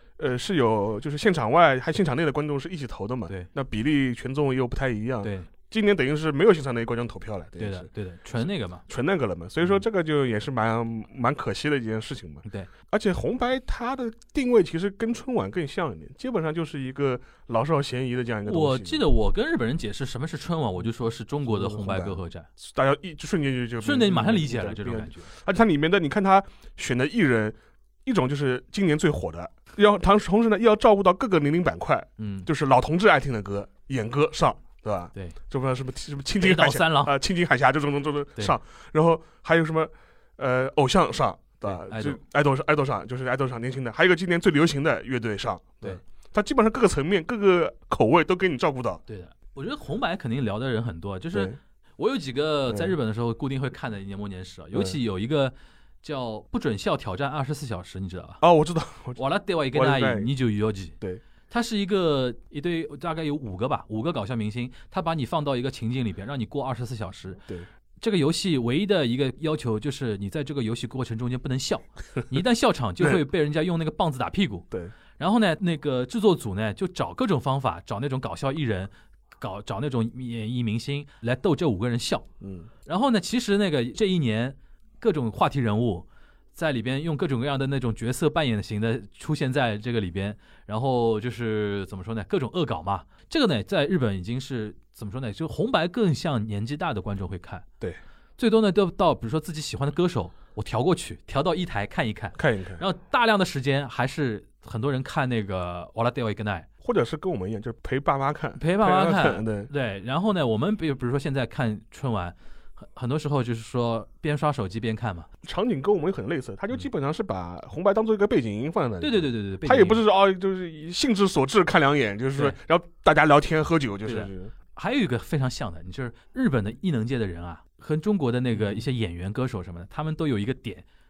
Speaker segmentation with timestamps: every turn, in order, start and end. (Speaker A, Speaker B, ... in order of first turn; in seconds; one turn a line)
Speaker A: 0.2-7.9
Speaker B: 5.2-5.5
Speaker B: 7.6-8.8
Speaker A: 8.9-19.0
Speaker B: 18.5-22.5
Speaker A: 21.5-49.0
Speaker B: 23.8-25.3
Speaker B: 32.2-32.5
Speaker B: 36.4-37.2
Speaker B: 41.7-42.2
Speaker B: 49.1-58.4
Speaker A: 52.7-52.9
Speaker A: 54.7-55.0
Speaker A: 58.4-59.2
Speaker B: 59.2-60.9
Speaker A: 59.7-60.3
Speaker B: 61.5-67.4
Speaker B: 68.0-74.7
Speaker B: 75.2-82.2
Speaker A: 82.4-82.7
Speaker B: 82.9-97.6
Speaker B: 98.4-106.7
Speaker A: 102.3-102.8
Speaker A: 106.8-109.7
Speaker B: 108.6-115.3
Speaker A: 115.4-124.5
Speaker B: 119.0-120.0
Speaker B: 124.0-130.8
Speaker A: 128.5-128.8